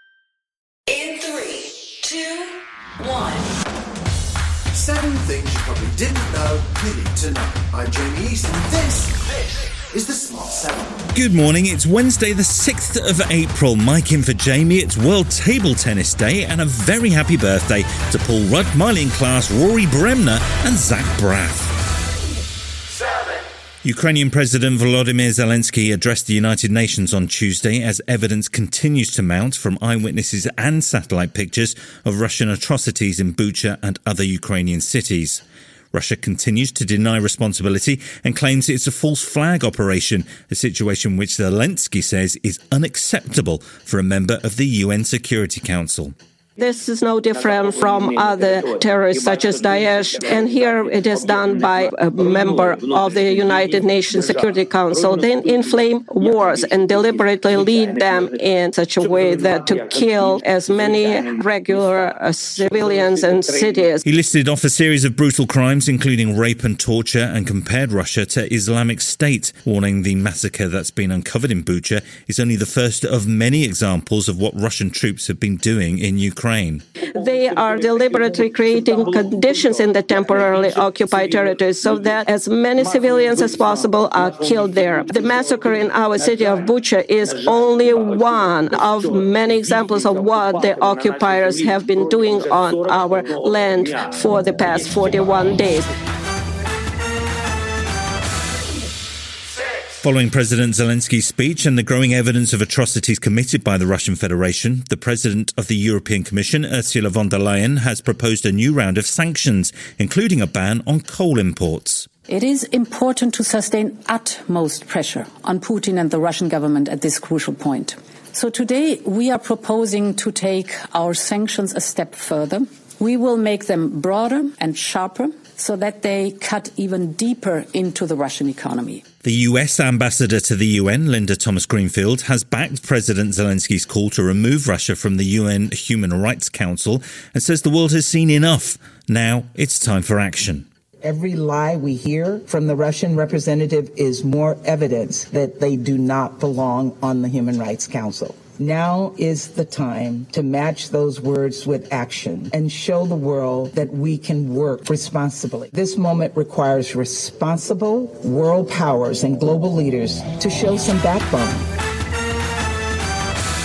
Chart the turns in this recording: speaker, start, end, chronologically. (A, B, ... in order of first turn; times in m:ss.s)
0:04.7-0:09.2 A
0:09.9-0:10.9 A
0:11.1-0:21.7 B
0:23.8-0:35.4 B
0:35.9-0:46.1 B
0:46.6-1:04.0 C
1:04.0-1:16.8 B
1:17.1-1:35.9 C
1:40.0-1:52.1 B
1:52.3-2:09.0 D
2:09.2-2:20.7 B
2:21.0-2:41.7 E